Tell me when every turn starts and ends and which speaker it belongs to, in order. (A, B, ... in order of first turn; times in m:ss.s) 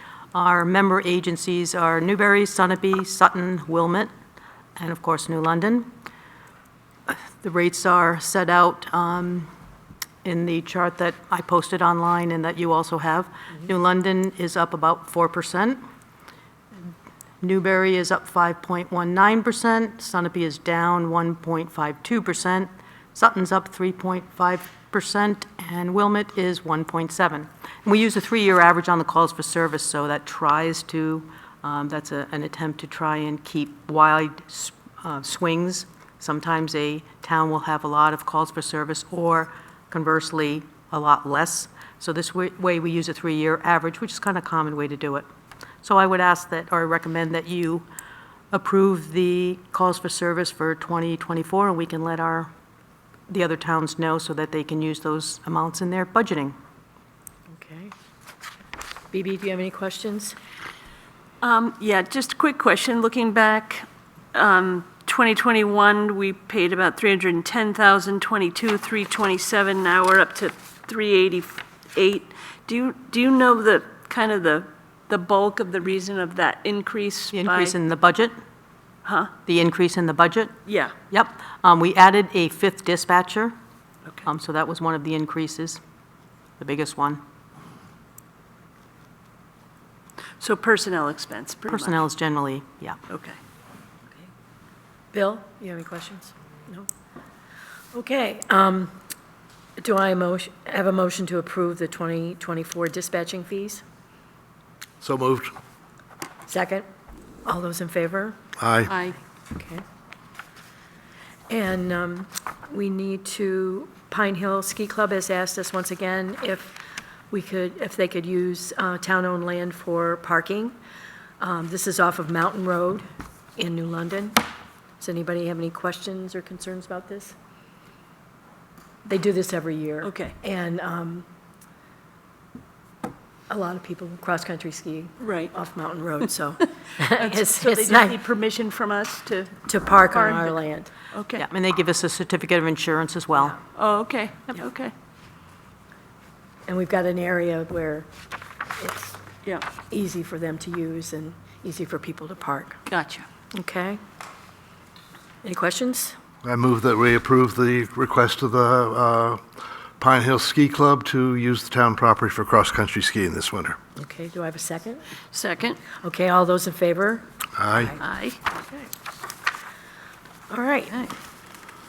0:00.3-0:04.1 A
0:04.8-0:05.9 A
0:07.1-0:09.5 A
0:10.2-0:15.8 A
0:17.4-0:45.2 A
0:45.8-0:47.8 A
0:48.5-0:52.5 A
0:53.3-0:56.6 A
0:57.5-0:57.9 B
0:59.1-1:00.4 B
1:01.4-1:17.7 C
1:17.3-1:18.3 A
1:19.0-1:19.3 C
1:19.4-1:20.6 A
1:20.6-1:20.9 C
1:21.1-1:23.5 A
1:24.2-1:25.8 A
1:26.6-1:27.2 A
1:30.4-1:32.0 C
1:31.7-1:33.0 A
1:33.1-1:33.4 C
1:35.1-1:36.9 B
1:37.9-1:39.0 B
1:39.8-1:43.8 B
1:45.0-1:45.5 D
1:46.5-1:46.8 B
1:47.4-1:48.4 B
1:48.6-1:48.9 D
1:48.9-1:49.2 C
1:49.5-1:49.8 B
1:51.5-2:00.8 B
2:01.4-2:03.0 B
2:03.6-2:04.4 B
2:05.0-2:07.3 B
2:09.0-2:11.3 B
2:10.0-2:10.3 C
2:13.5-2:18.2 B
2:15.2-2:15.5 C
2:17.0-2:20.6 C
2:19.6-2:20.9 B
2:21.1-2:21.4 C
2:21.4-2:23.6 A
2:23.7-2:24.9 C
2:26.6-2:28.1 B
2:28.8-2:29.2 B
2:29.9-2:32.8 B
2:32.9-2:33.2 C
2:33.5-2:34.0 B
2:35.4-2:36.2 B
2:36.4-2:39.4 D
2:40.0-2:43.8 D
2:44.0-2:45.0 B
2:45.3-2:45.8 C
2:45.9-2:47.2 B
2:47.6-2:47.9 D
2:48.0-2:48.4 C
2:50.5-2:51.0 B